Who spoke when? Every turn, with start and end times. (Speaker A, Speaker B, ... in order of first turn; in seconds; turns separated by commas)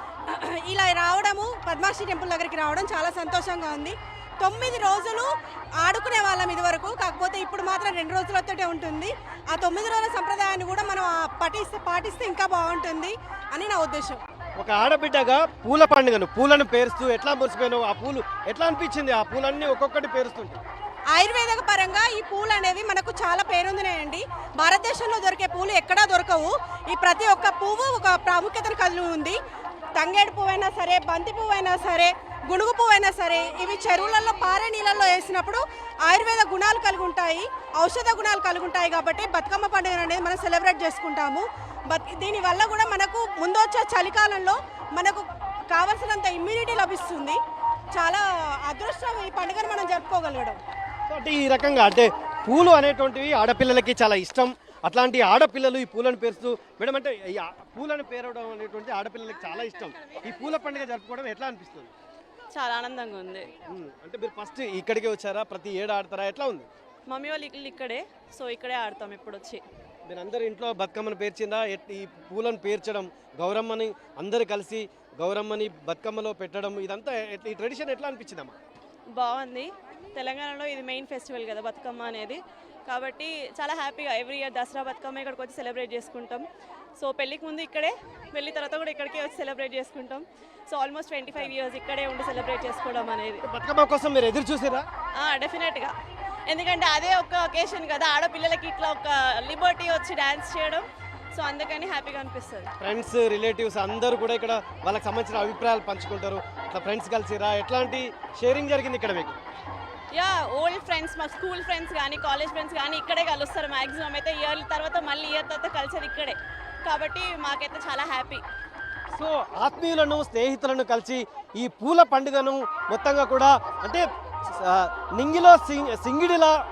Speaker A: 0.2-5.3, Speaker A: 5.8-14.2, Speaker B: 14.6-20.6, Speaker A: 21.1-29.4, Speaker A: 30.0-47.4, Speaker A: 47.9-50.6, Speaker B: 51.1-61.9, Speaker C: 62.5-63.5, Speaker B: 63.6-66.7, Speaker C: 67.1-69.6, Speaker B: 70.1-78.6, Speaker C: 79.2-86.5, Speaker C: 87.0-93.4, Speaker B: 93.4-94.8, Speaker C: 95.2-95.9, Speaker C: 96.5-102.7, Speaker B: 102.8-109.4, Speaker C: 110.1-118.4, Speaker B: 119.1-126.5